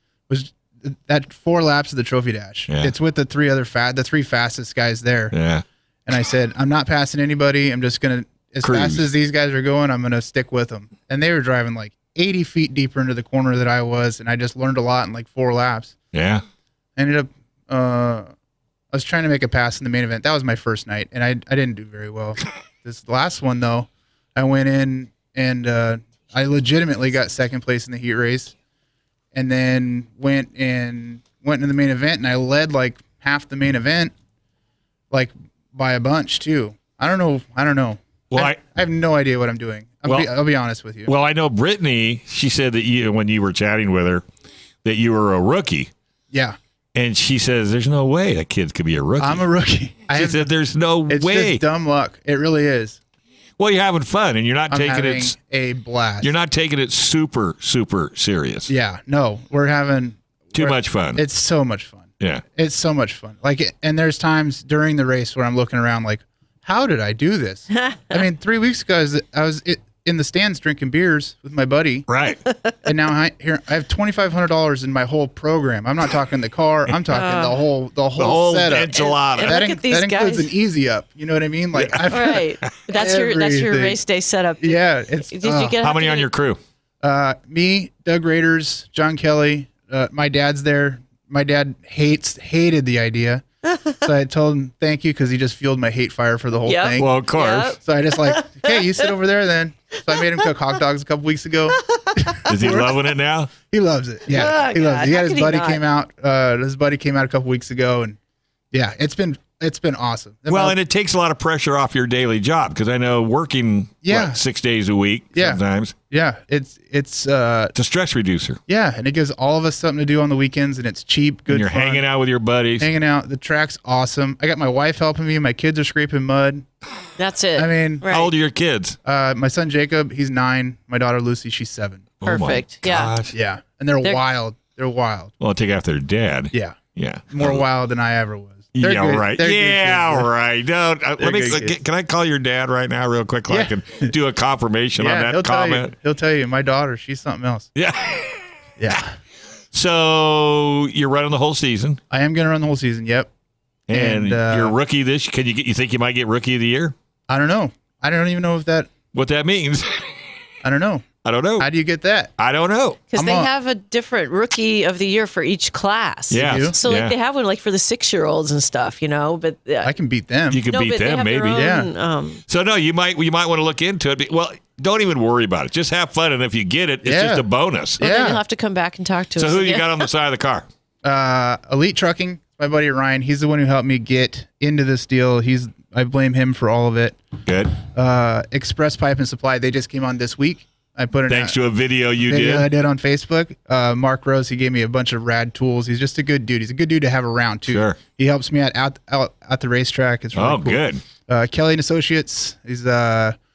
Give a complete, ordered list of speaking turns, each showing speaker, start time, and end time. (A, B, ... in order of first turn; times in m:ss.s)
0:00.3-0:05.3 A
0:02.7-0:02.9 B
0:05.3-0:05.6 B
0:06.1-0:16.0 A
0:08.6-0:09.1 B
0:16.1-0:16.4 B
0:17.0-0:18.3 A
0:18.9-0:28.5 A
0:29.3-0:34.1 A
0:35.1-0:41.1 A
0:38.3-0:38.6 B
0:40.0-0:40.3 B
0:41.1-0:44.2 B
0:44.8-0:45.9 B
0:46.3-0:46.6 A
0:46.9-0:49.4 B
0:49.2-0:50.5 A
0:50.1-0:51.6 B
0:51.1-0:53.0 A
0:53.6-0:55.4 B
0:54.7-0:56.3 A
0:56.2-0:58.7 B
0:58.7-1:12.1 A
1:00.5-1:01.2 B
1:12.1-1:12.4 B
1:12.8-1:24.0 A
1:17.1-1:17.6 C
1:18.2-1:19.6 B
1:18.9-1:20.5 C
1:21.8-1:22.8 B
1:22.1-1:26.3 C
1:24.6-1:25.8 A
1:25.8-1:26.6 B
1:27.0-1:37.2 A
1:36.7-1:39.0 C
1:37.0-1:37.8 B
1:37.8-1:43.1 A
1:40.2-1:40.4 C
1:41.7-1:42.5 C
1:42.5-1:43.5 B
1:43.7-1:48.2 A
1:44.3-1:45.8 C
1:48.7-1:50.8 A
1:50.5-1:55.9 B
1:54.0-1:54.4 A
1:55.3-1:57.7 A
1:57.7-1:58.6 B
1:58.7-2:02.1 A
2:01.5-2:02.9 B
2:02.8-2:06.6 A
2:07.2-2:08.3 C
2:07.6-2:08.1 A
2:08.1-2:09.0 B
2:09.0-2:12.1 A
2:12.2-2:13.3 B
2:12.2-2:13.1 C
2:13.3-2:15.3 A
2:15.4-2:17.6 B
2:16.5-2:16.8 A
2:17.3-2:20.3 A
2:18.8-2:25.9 B
2:21.2-2:21.8 A
2:23.5-2:24.1 A
2:25.0-2:27.7 A
2:27.8-2:28.4 B
2:28.8-2:29.2 A
2:29.7-2:32.0 B
2:32.1-2:33.3 A
2:33.9-2:36.9 B
2:33.9-2:34.8 A
2:37.3-2:38.9 A
2:39.1-2:39.9 B
2:40.6-2:41.0 A
2:41.2-2:41.7 B
2:41.6-2:42.3 A
2:42.4-2:43.0 B
2:43.1-2:49.9 C
2:43.2-2:43.5 A
2:46.3-2:47.1 B
2:46.4-2:46.8 A
2:49.8-2:50.6 A
2:50.5-2:51.6 B
2:50.7-2:52.4 C
2:51.5-2:51.9 A
2:52.5-2:58.0 B
2:57.0-2:57.5 A
2:58.0-2:58.4 A
2:58.0-3:00.0 C
2:59.4-3:00.7 B
3:01.0-3:07.2 A
3:07.5-3:07.7 B
3:07.8-3:11.6 A
3:11.3-3:12.7 B
3:12.2-3:23.4 A
3:17.7-3:18.0 B
3:20.3-3:21.0 B